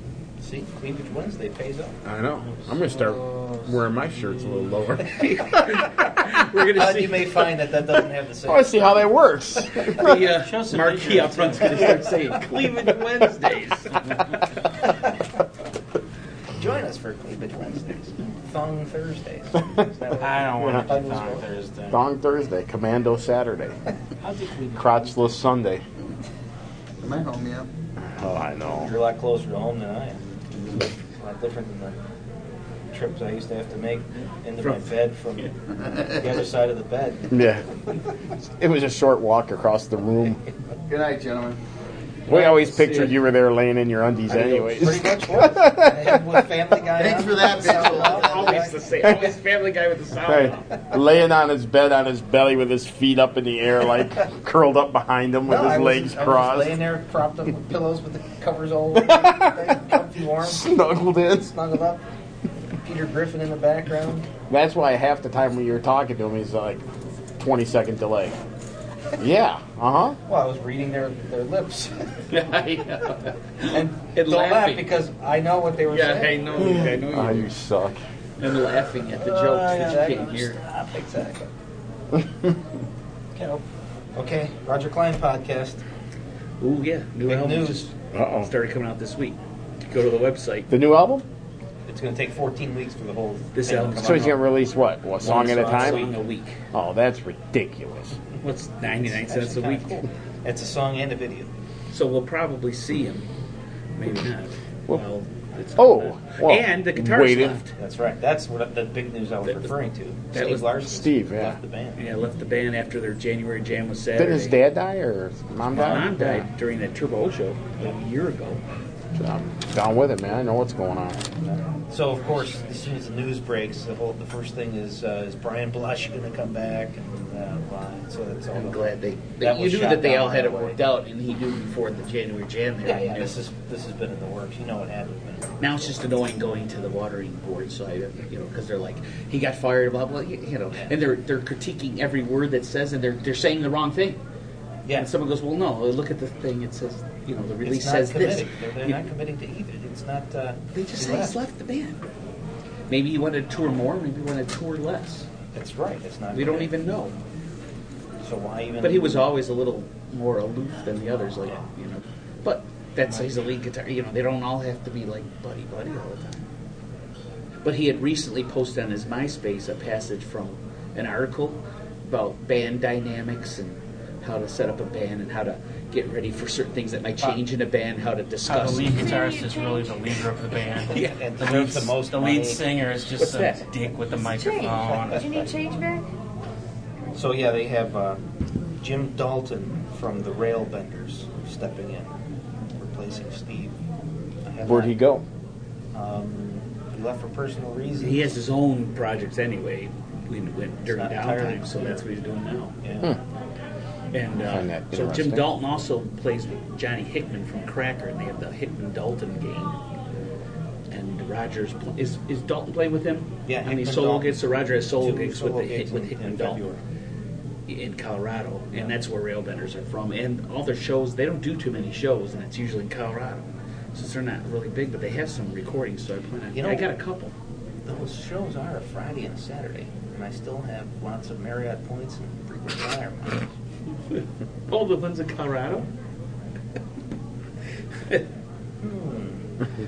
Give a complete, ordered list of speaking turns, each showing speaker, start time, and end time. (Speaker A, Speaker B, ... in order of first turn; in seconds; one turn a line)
Speaker A: 0.4-2.0
Speaker B: 2.0-6.3
Speaker C: 2.5-3.8
Speaker D: 5.2-7.5
Speaker A: 6.6-9.1
Speaker B: 8.5-10.3
Speaker D: 9.9-14.2
Speaker C: 10.3-12.1
Speaker A: 16.5-21.4
Speaker C: 20.2-22.0
Speaker B: 20.5-21.1
Speaker B: 21.9-23.8
Speaker C: 24.2-25.1
Speaker B: 24.7-25.8
Speaker E: 27.0-27.7
Speaker B: 28.0-28.9
Speaker A: 28.8-32.0
Speaker A: 32.9-37.6
Speaker D: 34.6-35.5
Speaker B: 37.3-37.6
Speaker B: 38.5-40.4
Speaker E: 40.9-41.6
Speaker B: 42.3-46.4
Speaker D: 42.3-43.2
Speaker A: 44.3-48.8
Speaker E: 46.9-48.7
Speaker D: 47.6-50.7
Speaker B: 49.0-49.3
Speaker B: 50.2-56.8
Speaker A: 55.5-60.7
Speaker B: 58.9-61.6
Speaker A: 61.4-62.0
Speaker A: 62.8-64.3
Speaker B: 64.5-66.8
Speaker B: 67.4-68.4
Speaker B: 69.2-70.2
Speaker A: 70.2-72.6
Speaker D: 72.3-74.8
Speaker A: 73.7-76.9
Speaker D: 75.9-77.5
Speaker B: 76.8-78.0
Speaker D: 78.4-80.6
Speaker A: 79.2-81.5
Speaker B: 82.2-82.5
Speaker C: 83.3-83.6
Speaker A: 84.2-85.8
Speaker D: 86.6-90.7
Speaker A: 87.2-87.9
Speaker B: 88.1-88.5
Speaker B: 90.7-91.2
Speaker A: 91.9-94.5
Speaker D: 93.5-94.4
Speaker B: 94.0-96.1
Speaker D: 95.2-96.6
Speaker A: 95.2-96.1
Speaker B: 96.7-98.2
Speaker D: 98.4-100.0
Speaker A: 99.2-101.5
Speaker D: 101.9-103.3
Speaker D: 104.0-107.7
Speaker B: 105.8-107.6
Speaker A: 107.8-112.0
Speaker D: 110.3-110.6
Speaker B: 110.9-111.6
Speaker D: 112.0-114.6
Speaker B: 114.2-116.5
Speaker D: 115.7-118.6
Speaker B: 119.1-121.3
Speaker A: 121.5-130.8
Speaker D: 128.5-133.4
Speaker A: 132.8-136.0
Speaker D: 135.6-144.2
Speaker A: 144.8-145.1
Speaker D: 144.9-149.0
Speaker A: 147.6-151.4
Speaker D: 150.7-152.0
Speaker D: 152.9-155.3
Speaker A: 155.5-156.7
Speaker D: 156.3-157.2
Speaker A: 158.2-159.3
Speaker D: 158.8-166.4
Speaker D: 167.6-179.1
Speaker C: 178.5-185.3
Speaker F: 178.9-180.0
Speaker D: 180.9-181.6
Speaker A: 181.0-182.6
Speaker D: 183.2-183.7
Speaker F: 184.1-186.0
Speaker A: 187.1-188.2
Speaker A: 188.8-192.1
Speaker A: 192.8-193.7
Speaker A: 194.5-195.0
Speaker B: 194.7-195.2
Speaker A: 195.9-198.3
Speaker D: 198.0-202.8
Speaker A: 200.8-202.1
Speaker A: 202.8-203.1
Speaker D: 204.1-209.8
Speaker B: 204.4-205.4
Speaker D: 210.9-216.6
Speaker A: 213.4-214.3
Speaker A: 215.0-216.8
Speaker D: 217.7-227.3
Speaker A: 226.5-226.9
Speaker A: 227.8-233.5
Speaker D: 234.1-235.9
Speaker A: 238.8-239.5